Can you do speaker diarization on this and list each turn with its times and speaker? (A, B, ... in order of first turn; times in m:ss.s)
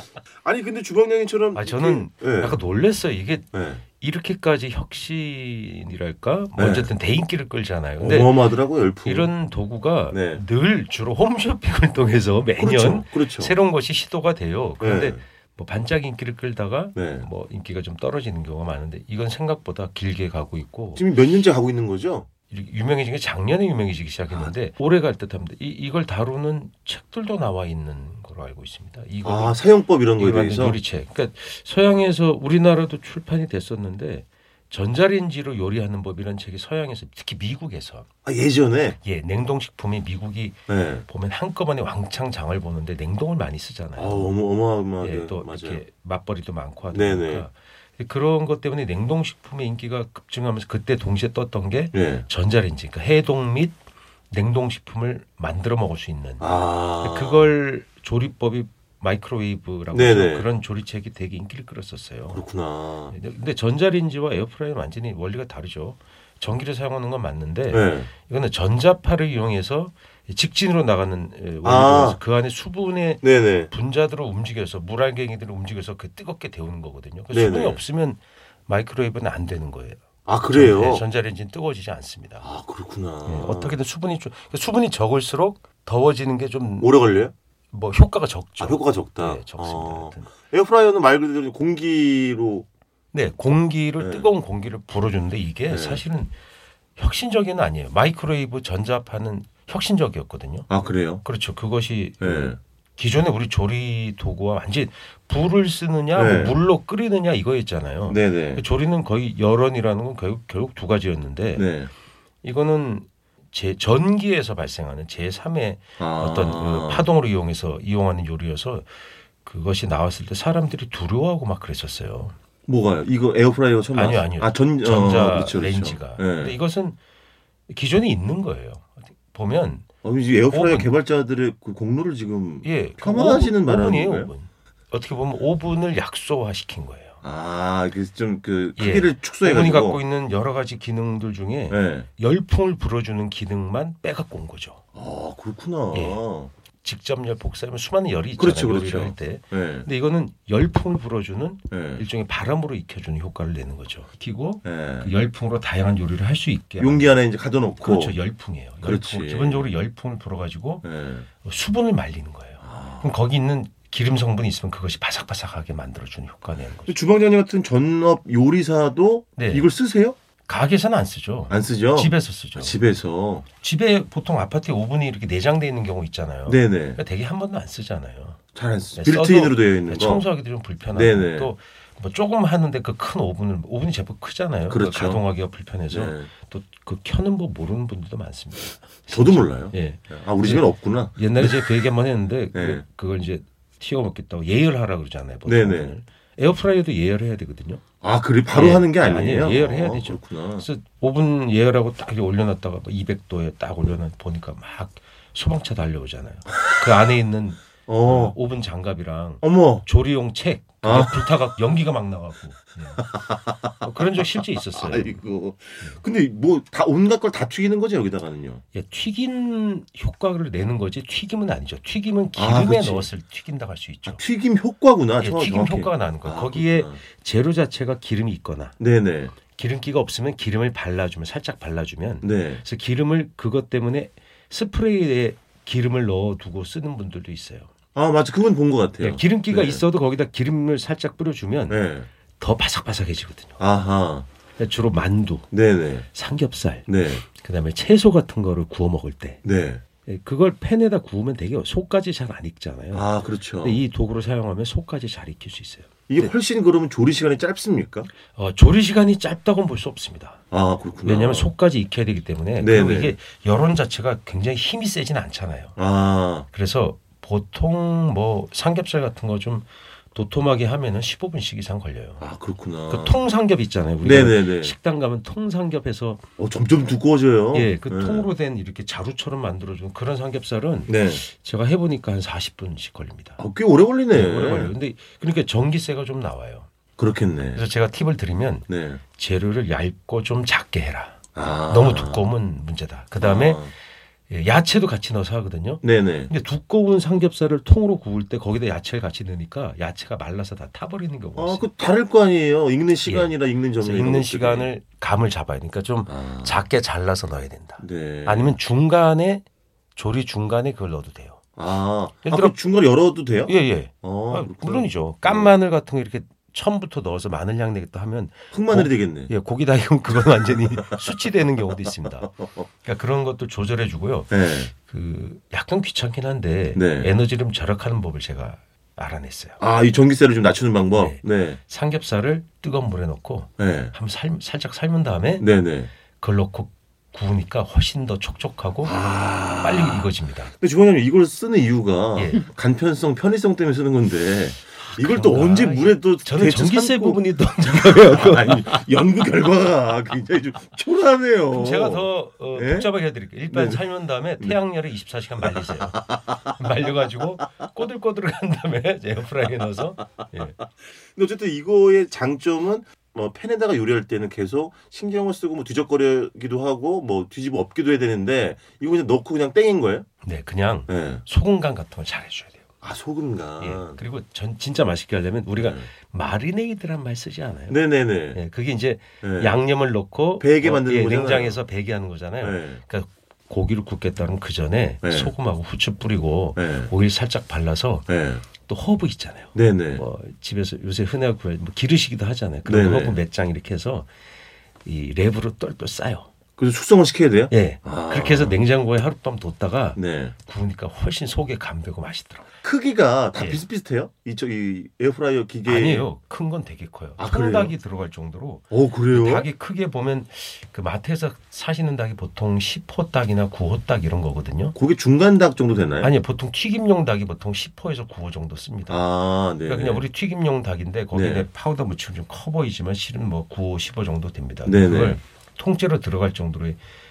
0:00.4-0:02.6 A
0:01.5-0:08.5 B
0:03.5-0:03.8 A
0:06.6-0:06.9 A
0:08.0-0:09.3 A
0:09.0-0:21.1 B
0:10.1-0:10.4 A
0:12.6-0:13.6 A
0:14.8-0:15.2 A
0:17.0-0:17.3 A
0:21.0-0:22.3 A
0:22.5-0:29.6 B
0:29.2-0:30.8 A
0:30.2-0:38.1 B
0:38.2-0:39.0 A
0:39.0-0:44.3 B
0:40.7-0:41.0 A
0:44.0-0:45.8 A
0:45.0-0:53.8 B
0:46.9-0:47.5 A
0:51.9-0:52.2 A
0:54.3-1:02.4 B
0:56.4-0:57.5 A
0:59.9-1:00.5 A
1:02.3-1:03.1 A
1:03.1-1:22.5 B
1:07.7-1:08.1 A
1:11.6-1:12.2 A
1:13.2-1:13.7 A
1:17.3-1:17.8 A
1:20.2-1:21.0 A
1:22.4-1:23.8 A
1:23.2-1:27.0 B
1:26.8-1:27.3 A
1:27.7-1:30.3 B
1:28.6-1:32.7 A
1:33.1-1:36.3 B
1:34.0-1:34.3 A
1:35.7-1:36.0 A
1:37.0-1:40.7 B
1:40.7-1:41.2 A
1:41.2-1:51.7 B
1:42.2-1:42.6 A
1:46.1-1:46.6 A
1:48.1-1:48.6 A
1:51.6-1:51.9 A
1:52.4-2:02.3 B
1:56.0-1:57.1 A
2:02.7-2:06.6 A
2:03.9-2:07.0 B
2:07.7-2:09.8 B
2:10.0-2:14.3 A
2:10.5-2:10.9 B
2:12.6-2:17.2 B
2:17.2-2:20.0 A
2:18.8-2:24.8 B
2:21.7-2:22.1 A
2:24.9-2:26.5 A
2:25.9-2:26.2 B
2:26.8-2:37.1 B
2:28.4-2:29.9 A
2:31.7-2:32.0 A
2:34.6-2:35.1 A
2:36.8-2:38.2 A
2:37.8-2:47.0 B
2:38.8-2:39.7 A
2:40.8-2:41.3 A
2:42.6-2:43.2 A
2:46.8-2:50.2 A
2:49.4-2:49.7 B
2:50.4-2:52.8 B
2:51.5-2:53.4 A
2:53.6-2:58.4 B
2:56.5-2:57.0 A
2:58.5-3:00.2 A
2:58.9-3:17.8 B
3:00.9-3:01.5 A
3:04.7-3:05.2 A
3:05.9-3:06.3 A
3:09.1-3:11.7 A
3:12.5-3:12.8 A
3:15.4-3:15.9 A
3:18.0-3:20.7 A
3:18.5-3:33.0 B
3:27.9-3:28.4 A
3:29.4-3:29.9 A
3:30.8-3:31.3 A
3:32.9-3:38.6 A
3:33.8-3:35.2 B
3:38.7-3:44.2 B
3:42.3-3:43.1 A
3:44.0-3:47.0 A
3:45.2-3:48.8 B
3:48.8-3:49.3 A
3:49.5-3:57.7 B
3:52.2-3:52.6 A
3:57.9-3:59.8 A
3:59.0-4:01.8 B
4:01.7-4:02.1 A
4:02.4-4:03.6 B
4:03.6-4:04.2 A
4:04.6-4:05.5 B
4:05.5-4:06.1 A
4:06.1-4:09.4 B
4:06.9-4:07.2 A
4:09.4-4:09.8 A
4:10.0-4:16.3 B
4:12.9-4:13.8 A
4:16.1-4:18.1 A
4:18.3-4:20.4 B
4:20.5-4:21.5 A
4:21.0-4:25.7 B
4:22.6-4:23.2 A
4:25.8-4:26.5 A
4:26.5-4:32.2 B
4:32.2-4:33.2 A
4:32.9-4:36.3 B
4:34.0-4:34.8 A
4:36.4-4:38.3 A
4:37.5-4:43.4 B
4:40.9-4:41.2 A
4:43.4-4:44.7 A
4:44.1-4:46.7 B
4:47.0-4:47.6 A
4:47.5-4:53.7 B
4:48.7-4:49.0 A
4:51.3-4:52.2 A
4:53.2-4:53.7 A
4:54.3-5:01.7 B
4:55.8-4:56.3 A
5:01.4-5:04.7 A
5:03.0-5:09.4 B
5:06.1-5:06.6 A
5:07.8-5:08.6 A
5:09.9-5:11.4 B
5:11.6-5:15.5 A
5:12.2-5:12.6 B
5:13.4-5:29.6 B
5:18.5-5:19.3 A
5:20.5-5:21.0 A
5:22.2-5:22.7 A
5:24.3-5:24.7 A
5:26.7-5:27.1 A
5:29.6-5:31.6 A
5:30.9-5:35.5 B
5:33.6-5:33.9 A
5:35.4-5:35.9 A
5:36.1-5:40.5 B
5:38.8-5:53.8 A
5:42.1-5:42.5 B
5:44.8-5:48.9 B
5:51.5-6:00.6 B
5:55.4-5:56.9 A
6:00.4-6:10.0 A
6:10.2-6:12.6 B
6:10.9-6:11.2 A
6:12.8-6:14.0 A
6:13.6-6:17.8 B
6:15.5-6:15.9 A
6:17.7-6:18.4 A
6:18.3-6:34.1 B
6:19.2-6:19.6 A
6:20.4-6:21.6 A
6:22.4-6:22.8 A
6:25.0-6:25.3 A
6:26.6-6:26.9 A
6:28.1-6:28.4 A
6:29.5-6:30.0 A
6:32.6-6:33.2 A
6:34.8-6:36.3 B
6:36.6-6:38.6 A
6:37.5-6:42.5 B
6:40.0-6:40.3 A
6:42.6-6:46.1 A
6:43.4-6:43.6 B
6:45.6-6:54.8 B
6:47.2-6:47.7 A
6:48.7-6:49.5 A
6:54.8-6:56.1 A
6:56.0-6:59.0 B
6:58.9-7:00.1 A
6:59.6-7:06.8 B
7:01.1-7:01.5 A
7:04.6-7:05.2 A